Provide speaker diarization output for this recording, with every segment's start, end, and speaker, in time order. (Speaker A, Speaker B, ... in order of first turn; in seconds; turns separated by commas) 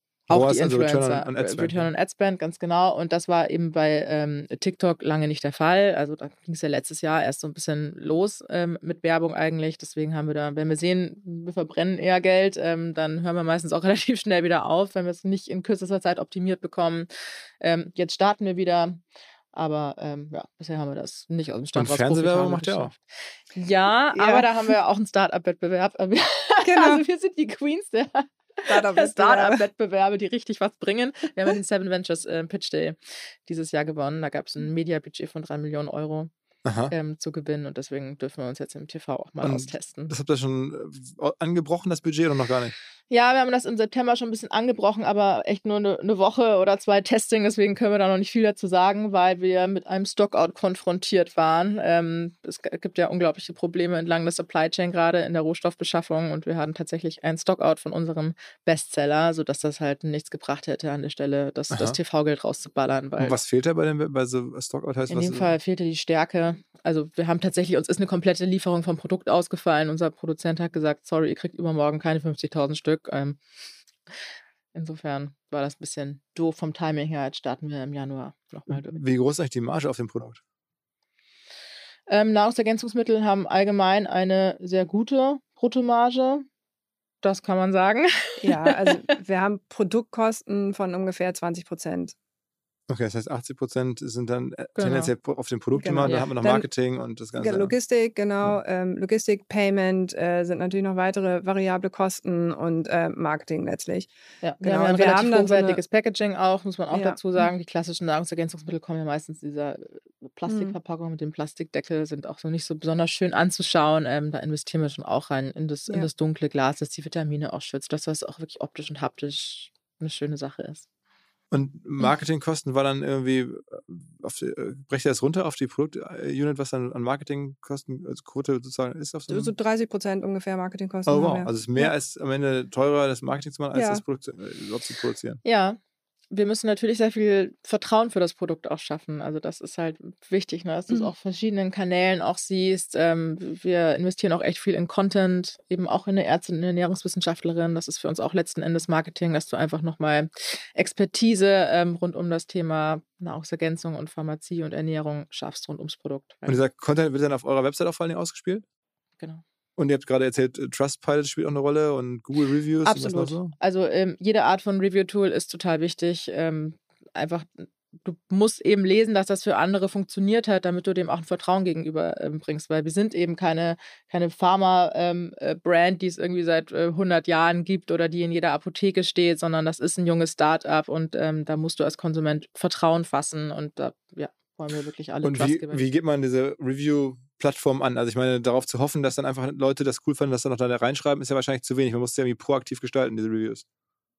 Speaker A: 0.3-17.1, Speaker B: 0.3-1.9, Speaker A: 17.6-19.0, Speaker A: 19.5-23.0, Speaker B: 21.8-22.9, Speaker A: 23.6-36.3, Speaker C: 24.1-24.5, Speaker C: 26.6-27.0, Speaker C: 28.7-29.6, Speaker B: 36.6-36.9, Speaker A: 36.9-40.1, Speaker B: 39.4-42.7, Speaker A: 43.1-63.4, Speaker B: 61.7-62.0, Speaker B: 63.2-65.5, Speaker A: 65.1-73.4, Speaker A: 74.8-79.0, Speaker B: 78.7-80.4, Speaker A: 82.1-86.5, Speaker A: 87.2-89.0, Speaker C: 88.4-92.2, Speaker B: 92.9-97.7, Speaker A: 94.8-95.1, Speaker C: 95.8-96.7, Speaker C: 97.4-104.1, Speaker A: 104.4-120.9, Speaker C: 104.6-105.8, Speaker C: 106.9-107.2, Speaker C: 110.5-110.8, Speaker B: 121.5-129.5, Speaker C: 129.3-131.9, Speaker B: 131.1-135.4, Speaker C: 133.7-134.0, Speaker A: 135.4-135.8, Speaker A: 136.3-156.6, Speaker B: 156.5-158.6, Speaker B: 159.8-163.5, Speaker A: 162.8-185.9, Speaker B: 185.2-193.6